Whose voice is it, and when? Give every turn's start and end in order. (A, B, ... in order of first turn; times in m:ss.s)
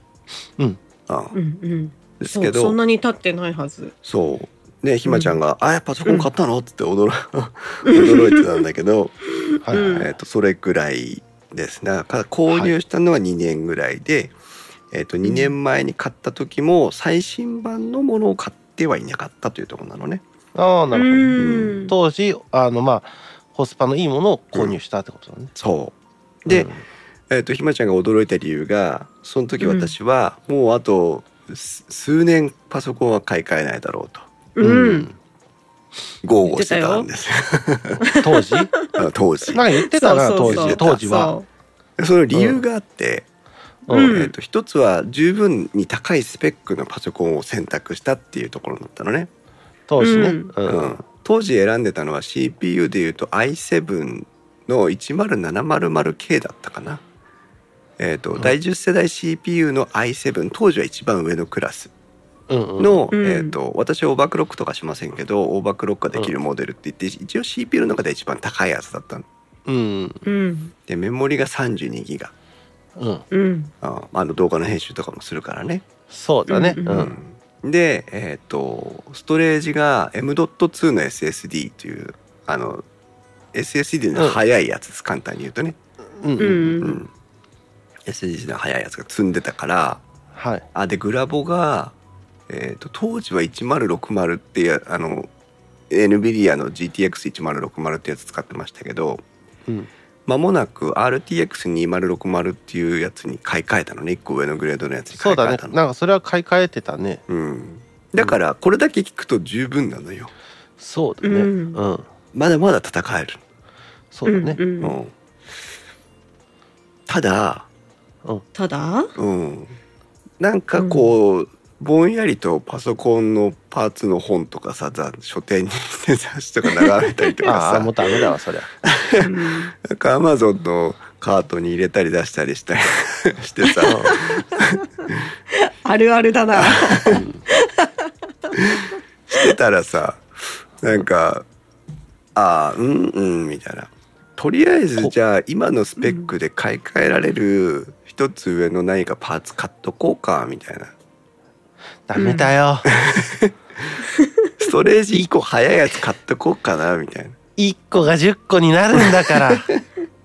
0:01.1-0:01.4 A
0:01.3-0:03.9 B
0:02.2-0:02.8 A
0:04.0-0:09.2 A
0:05.1-0:05.4 B
0:07.9-0:08.5 B
0:09.6-0:10.0 C
0:09.7-0:10.1 B
0:09.8-0:14.3 A
0:14.9-0:20.2 A
0:15.2-0:15.5 B
0:20.6-0:21.4 C
0:20.9-0:21.9 B
0:21.3-0:21.9 A
0:21.9-0:25.5 C
0:25.6-0:26.7 A
0:26.5-0:26.8 C
0:27.3-0:34.3 A
0:29.6-0:29.9 B
0:34.6-0:35.1 B
0:34.6-0:35.2 C
0:36.2-0:38.0 A
0:36.4-0:37.1 B
0:38.0-0:41.5 B
0:38.2-0:38.7 C
0:39.0-0:39.6 A
0:39.5-0:41.4 C
0:40.4-0:41.0 A
0:42.0-0:43.3 A
0:42.3-0:42.6 C
0:43.9-0:44.2 C
0:43.9-0:44.3 B
0:44.0-0:49.3 A
0:49.9-0:51.0 C
0:50.0-0:50.5 B
0:50.7-0:57.0 A
0:58.0-1:01.9 A
1:02.5-1:03.1 C
1:02.8-1:09.3 A
1:03.1-1:03.6 B
1:09.7-1:10.2 C
1:10.3-1:10.7 B
1:10.9-1:12.3 A
1:13.0-1:13.2 C
1:13.3-1:13.7 B
1:13.8-1:15.9 A
1:16.1-1:17.1 C
1:16.5-1:17.1 B
1:16.9-1:22.8 A
1:23.5-1:25.8 A
1:26.2-1:26.8 C
1:26.4-1:27.0 B
1:26.8-1:27.1 A
1:28.1-1:30.0 A
1:30.4-1:30.7 C
1:30.7-1:32.0 A
1:32.5-1:35.3 A
1:35.9-1:39.2 A
1:40.3-1:45.8 A
1:45.2-1:47.2 C
1:47.3-1:50.3 A
1:50.8-1:52.0 C
1:51.2-1:51.8 B
1:52.3-1:53.4 A
1:54.1-1:54.6 C
1:54.3-1:55.0 B
1:54.8-1:55.1 A
1:57.1-1:57.7 A
1:58.6-1:59.1 B
1:59.2-1:59.8 A
2:00.4-2:08.0 A
2:00.8-2:01.1 B
2:06.8-2:07.5 B
2:07.5-2:08.7 C
2:08.8-2:15.2 A
2:09.2-2:09.7 B
2:13.6-2:14.7 B
2:13.8-2:14.2 C
2:15.5-2:19.5 B
2:16.6-2:17.2 A
2:17.1-2:17.4 C
2:18.5-2:21.5 A
2:22.4-2:30.9 A
2:32.1-2:32.9 C
2:32.2-2:32.5 B
2:32.9-2:34.0 A
2:34.6-2:37.4 A
2:37.6-2:39.7 C
2:38.9-2:39.8 A